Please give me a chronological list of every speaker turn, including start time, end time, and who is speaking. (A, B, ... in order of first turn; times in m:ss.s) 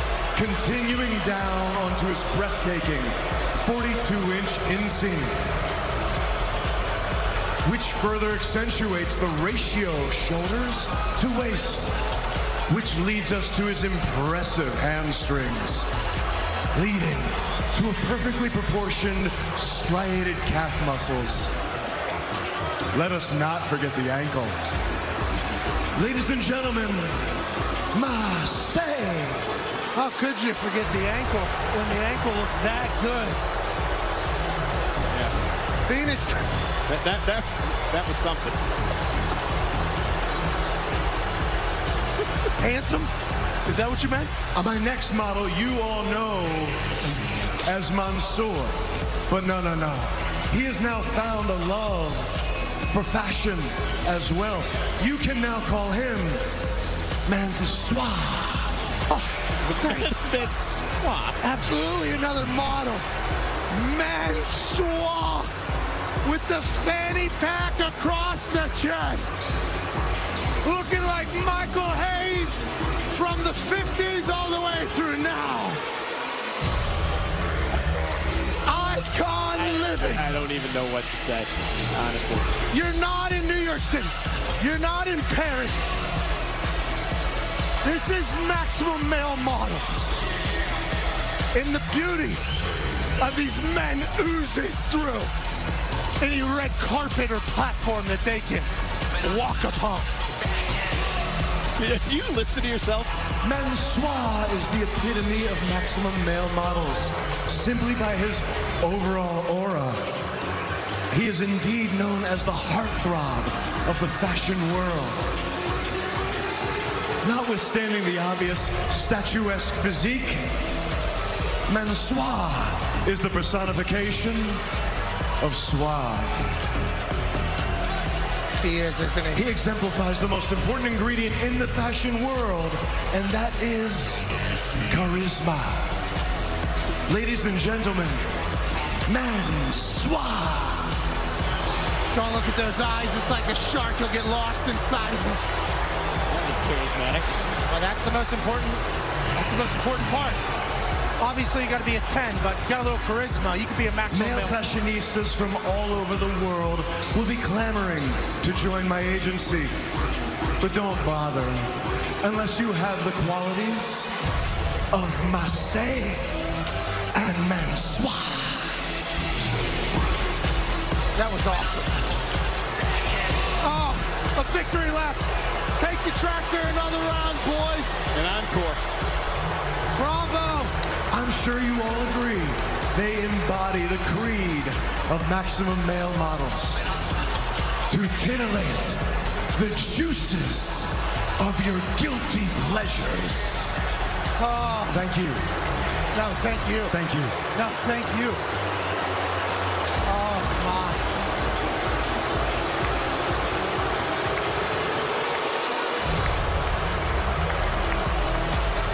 0:00.3-0:05.4 A
0:07.6-0:11.9 A
0:12.7-0:15.9 A
0:16.7-0:21.5 A
0:22.9-0:24.6 A
0:26.0-0:27.2 A
0:27.9-0:29.4 A
0:29.9-0:33.4 B
0:35.1-0:35.3 C
0:35.9-0:36.4 B
0:36.9-0:38.6 C
0:42.6-0:43.1 B
0:43.6-0:44.3 B
0:44.5-0:46.8 A
0:47.6-0:52.3 A
0:52.9-0:56.4 A
0:57.2-0:58.7 A
0:59.6-1:01.4 C
0:59.8-1:00.2 B
1:01.4-1:03.0 B
1:03.7-1:05.5 B
1:06.2-1:09.4 B
1:10.6-1:15.8 B
1:18.6-1:20.3 B
1:19.5-1:22.5 C
1:22.7-1:25.9 B
1:27.8-1:30.1 B
1:31.5-1:32.4 B
1:33.2-1:35.3 B
1:36.2-1:38.7 B
1:39.2-1:40.1 B
1:41.8-1:43.1 C
1:43.4-1:50.0 A
1:51.1-1:55.2 A
1:57.2-2:00.6 A
2:01.7-2:04.6 A
2:05.4-2:06.5 A
2:08.6-2:09.4 B
2:09.3-2:14.3 A
2:14.9-2:15.9 A
2:17.1-2:18.2 A
2:19.1-2:21.0 A
2:22.1-2:25.4 B
2:26.3-2:27.3 C
2:27.7-2:30.4 B
2:31.2-2:34.6 B
2:34.1-2:39.7 A
2:40.6-2:44.1 A
2:44.9-2:46.4 A
2:47.1-2:48.8 A
2:51.1-2:52.0 B
2:53.6-2:55.2 B
2:55.8-2:58.0 B
2:58.1-2:58.8 C
3:00.0-3:00.7 B
3:01.1-3:06.8 A
3:07.9-3:09.0 A
3:09.5-3:13.7 A
3:14.4-3:15.1 B
3:14.9-3:15.4 A
3:16.1-3:16.9 B
3:16.9-3:17.4 A
3:17.5-3:18.4 B
3:20.0-3:21.0 B